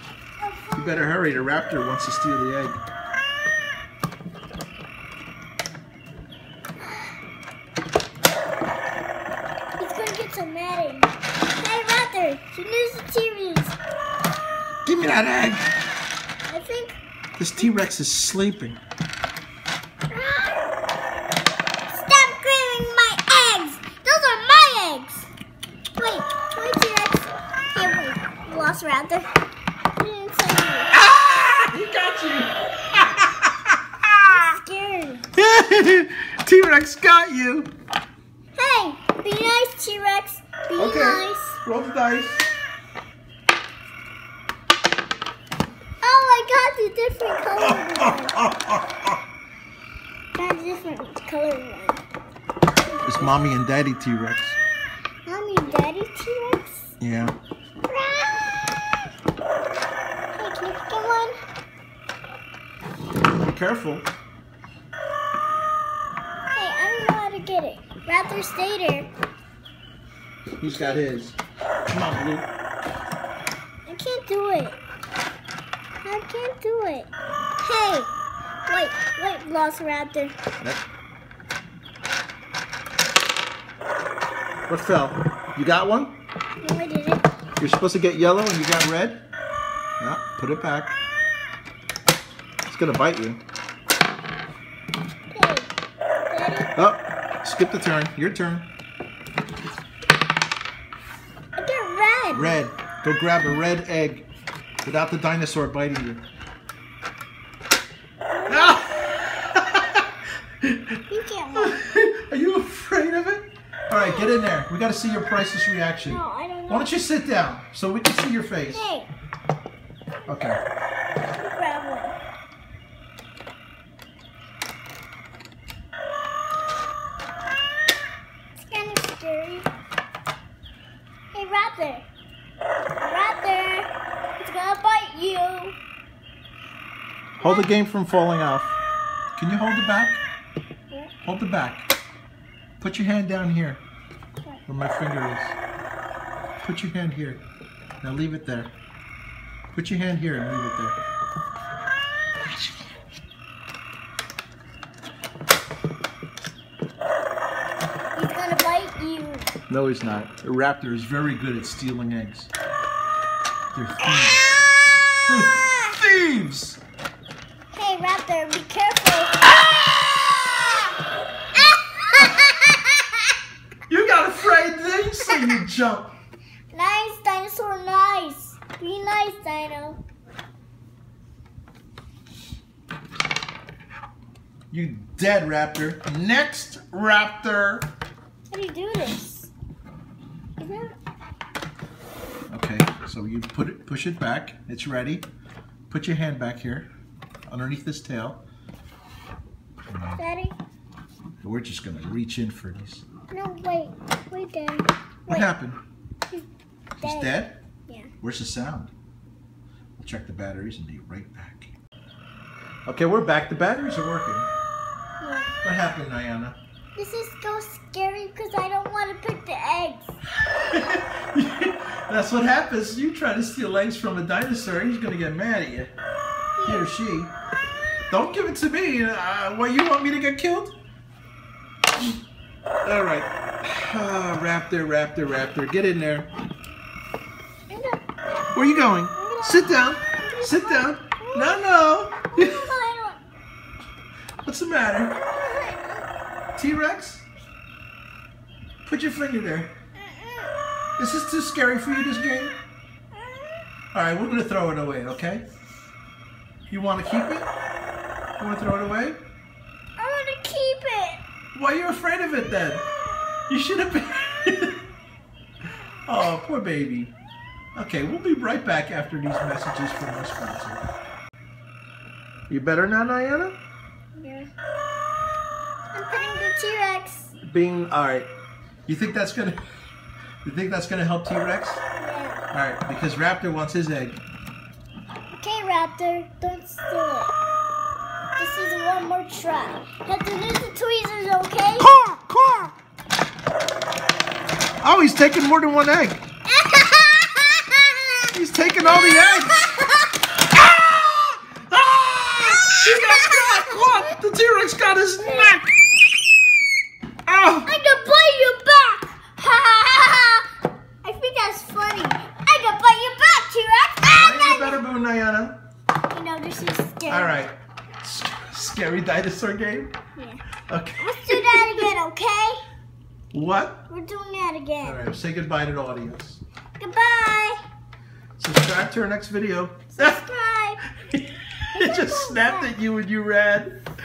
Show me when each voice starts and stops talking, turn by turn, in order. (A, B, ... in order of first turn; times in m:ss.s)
0:00.4-0:01.1 A
0:00.7-0:02.8 B
0:09.8-0:13.8 A
0:14.8-0:15.7 B
0:16.5-0:17.0 A
0:17.4-0:18.8 B
0:20.1-0:20.6 A
0:21.9-0:25.3 A
0:26.0-0:29.3 A
0:30.0-0:30.9 A
0:30.9-0:34.4 B
0:34.2-0:35.2 A
0:35.3-0:37.7 B
0:38.5-0:41.6 A
0:40.8-0:42.4 B
0:46.0-0:48.3 A
0:47.6-0:49.2 B
0:50.3-0:52.0 A
0:52.9-0:53.3 A
0:53.0-0:54.6 B
0:55.2-0:56.9 A
0:57.0-0:57.4 B
0:57.8-0:58.6 A
1:00.3-1:01.3 A
1:03.4-1:04.1 B
1:06.5-1:09.1 A
1:10.6-1:11.4 B
1:10.6-1:11.0 A
1:11.9-1:12.5 B
1:13.9-1:14.8 A
1:16.0-1:17.1 A
1:17.6-1:18.1 A
1:18.7-1:20.4 A
1:24.7-1:26.2 B
1:26.6-1:27.2 A
1:27.6-1:29.2 B
1:30.0-1:31.0 B
1:32.6-1:33.4 B
1:35.3-1:35.7 A
1:36.3-1:36.7 A
1:36.8-1:38.7 B
1:41.6-1:42.6 A
1:42.3-1:44.3 B
1:44.8-1:46.2 B
1:48.3-1:49.0 A
1:48.5-1:50.1 B
1:50.6-1:51.0 B
1:51.1-1:51.8 A
1:51.5-1:58.8 B
1:53.9-1:54.2 A
1:56.0-1:56.9 A
1:58.7-1:59.1 A
2:00.3-2:00.6 B
2:01.4-2:02.2 A
2:08.5-2:09.7 A
2:11.3-2:12.0 A
2:13.0-2:15.8 A
2:17.4-2:17.7 A
2:17.4-2:18.8 B
2:19.4-2:20.2 B
2:21.2-2:21.9 B
2:22.8-2:23.8 B
2:24.7-2:25.6 B
2:26.6-2:27.4 B
2:28.0-2:28.7 B
2:29.7-2:31.0 B
2:38.1-2:39.5 A
2:39.7-2:42.5 B
2:43.7-2:44.5 B
2:45.3-2:46.8 B
2:47.7-2:49.4 A
2:51.5-2:53.3 A
2:53.9-2:56.1 B
2:54.5-2:55.5 A
2:56.7-3:00.0 A
3:04.7-3:07.9 B
3:08.5-3:09.5 A
3:10.6-3:10.9 A
3:12.5-3:15.3 B
3:15.9-3:16.9 B
3:17.5-3:18.4 B
3:19.9-3:20.2 B
3:20.2-3:20.6 A
3:21.4-3:23.0 B
3:23.3-3:25.5 A
3:25.2-3:25.8 B
3:27.0-3:28.1 A
3:27.0-3:27.6 B
3:28.2-3:28.9 B
3:30.0-3:31.7 B
3:32.8-3:34.5 B
3:35.2-3:35.5 A
3:35.6-3:36.6 B
3:36.9-3:40.2 A
3:40.4-3:45.9 B
3:46.6-3:46.9 A
3:46.6-3:47.3 B
3:48.1-3:50.7 B
3:52.8-3:56.3 B
3:57.7-3:58.0 A
3:58.5-4:02.7 B
3:59.1-4:01.6 A
4:02.3-4:03.2 A
4:04.4-4:05.2 B
4:05.1-4:06.1 A
4:06.6-4:07.3 B
4:08.8-4:09.7 B
4:10.0-4:10.5 A
4:11.0-4:12.6 B
4:13.1-4:13.6 A
4:13.9-4:15.4 B
4:16.7-4:17.5 B
4:18.4-4:19.2 B
4:20.0-4:21.2 A
4:21.5-4:22.9 B
4:23.5-4:24.8 B
4:26.0-4:27.1 B
4:27.7-4:30.8 B
4:32.5-4:33.6 B
4:34.2-4:34.5 A
4:35.9-4:37.3 A
4:37.4-4:38.3 B
4:38.8-4:39.6 B
4:40.4-4:41.8 B
4:42.0-4:42.4 A
4:42.5-4:44.2 B
4:45.3-4:47.3 A
4:48.4-4:51.9 A
4:51.8-4:52.7 B
4:54.8-4:56.2 B
4:56.5-5:00.1 A
4:58.3-4:59.6 B
5:00.5-5:05.7 B
5:02.6-5:04.0 A
5:05.2-5:05.5 A
5:07.2-5:07.7 B
5:07.6-5:10.5 A
5:11.0-5:14.8 A
5:14.0-5:15.6 B
5:16.1-5:17.4 A
5:17.1-5:19.9 B
5:20.2-5:20.4 A
5:20.7-5:21.9 B
5:21.0-5:22.6 A
5:23.3-5:23.8 B
5:23.9-5:25.0 A
5:24.8-5:26.4 B
5:26.8-5:27.6 A
5:28.4-5:30.2 B
5:29.9-5:30.8 A
5:31.0-5:33.9 B
5:31.7-5:32.7 A